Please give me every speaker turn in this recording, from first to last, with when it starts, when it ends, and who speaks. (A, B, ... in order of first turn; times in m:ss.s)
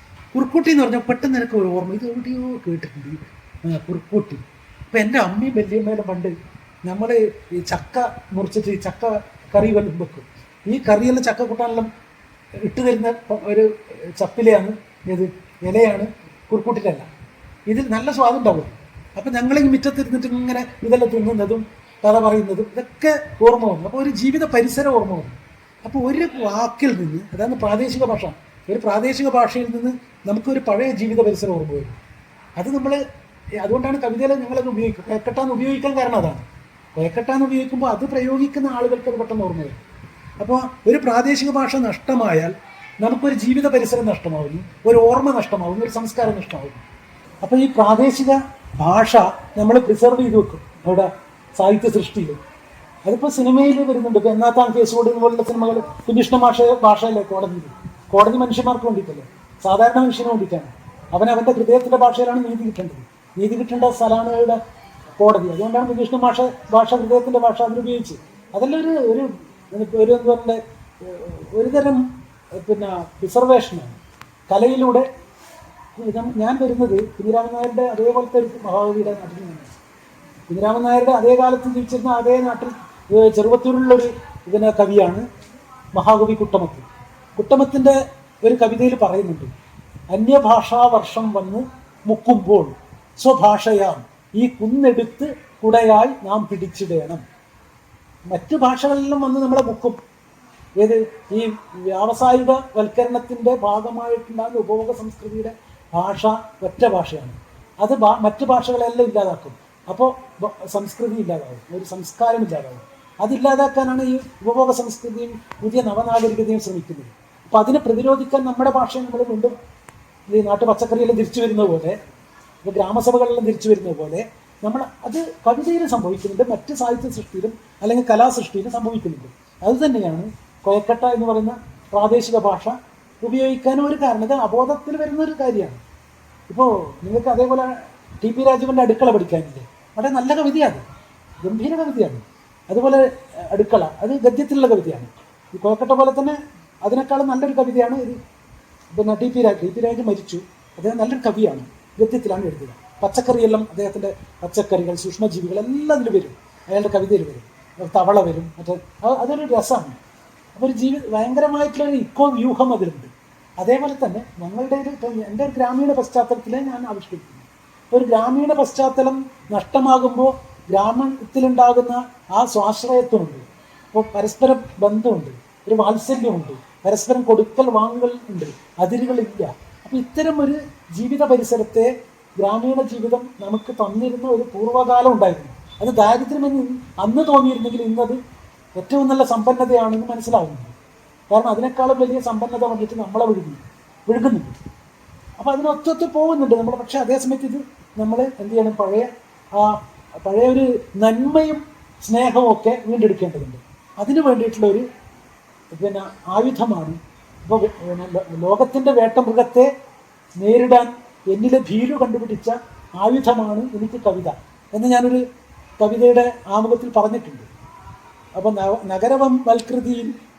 0:00.3-0:11.9 A
0:12.6-0:17.1 A
0:17.7-0:32.0 A
0:32.6-0:33.0 A
0:33.6-0:39.8 A
0:40.4-0:46.8 A
0:47.4-0:52.4 A
0:53.0-1:04.6 A
1:05.2-1:14.0 A
1:14.5-1:15.1 A
1:16.0-1:19.7 A
1:20.5-1:25.3 A
1:25.9-1:29.5 A
1:30.1-1:37.2 A
1:38.3-1:40.0 A
1:40.8-1:59.6 A
2:00.3-2:02.0 A
2:02.6-2:15.8 A
2:16.5-2:20.8 A
2:21.4-2:28.2 A
2:28.9-2:40.0 A
2:40.6-3:08.2 A
3:08.8-3:10.8 A
3:11.3-3:14.6 A
3:15.4-3:24.8 A
3:25.7-3:29.7 A
3:30.4-3:35.2 A
3:35.8-3:37.5 A
3:38.4-3:40.2 A